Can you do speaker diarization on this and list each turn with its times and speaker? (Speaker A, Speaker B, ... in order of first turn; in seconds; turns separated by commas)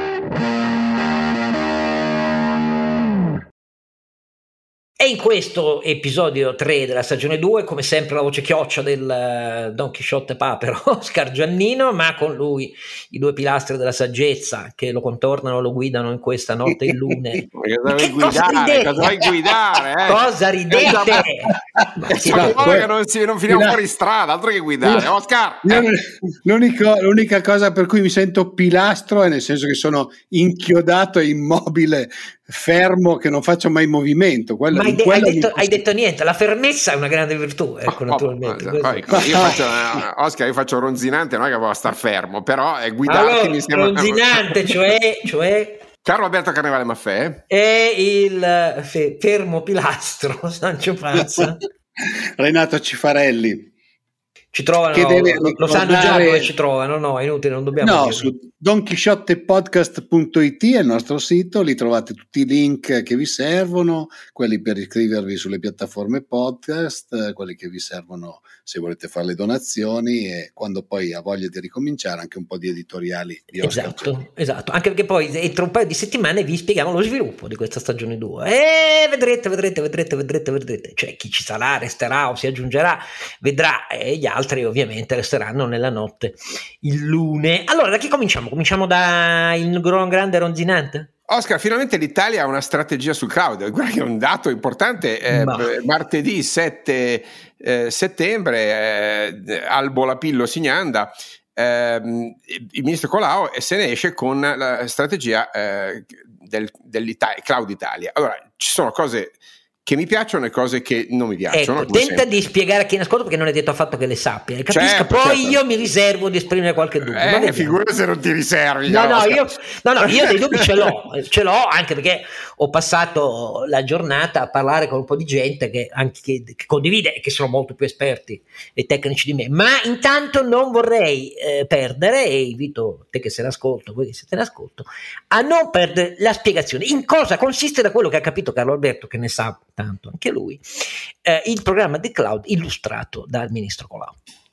Speaker A: 5.0-19.3, Speaker B: 16.8-17.1, Speaker C: 17.5-21.3, Speaker A: 20.0-22.8, Speaker B: 21.8-22.9, Speaker C: 22.1-25.9, Speaker B: 23.5-23.8, Speaker B: 24.8-25.1, Speaker B: 25.6-35.8, Speaker A: 34.7-39.5, Speaker C: 37.9-44.8, Speaker B: 39.1-40.0, Speaker A: 43.0-45.8, Speaker C: 46.0-47.4, Speaker A: 47.5-51.6, Speaker B: 51.2-51.4, Speaker B: 52.0-53.7, Speaker A: 54.5-58.3, Speaker B: 54.9-56.5, Speaker B: 57.8-74.1, Speaker A: 73.6-91.1, Speaker C: 91.3-112.2, Speaker A: 95.3-95.7, Speaker A: 111.5-117.8, Speaker C: 114.7-115.6, Speaker C: 117.0-119.5, Speaker A: 118.8-144.2, Speaker C: 120.0-120.9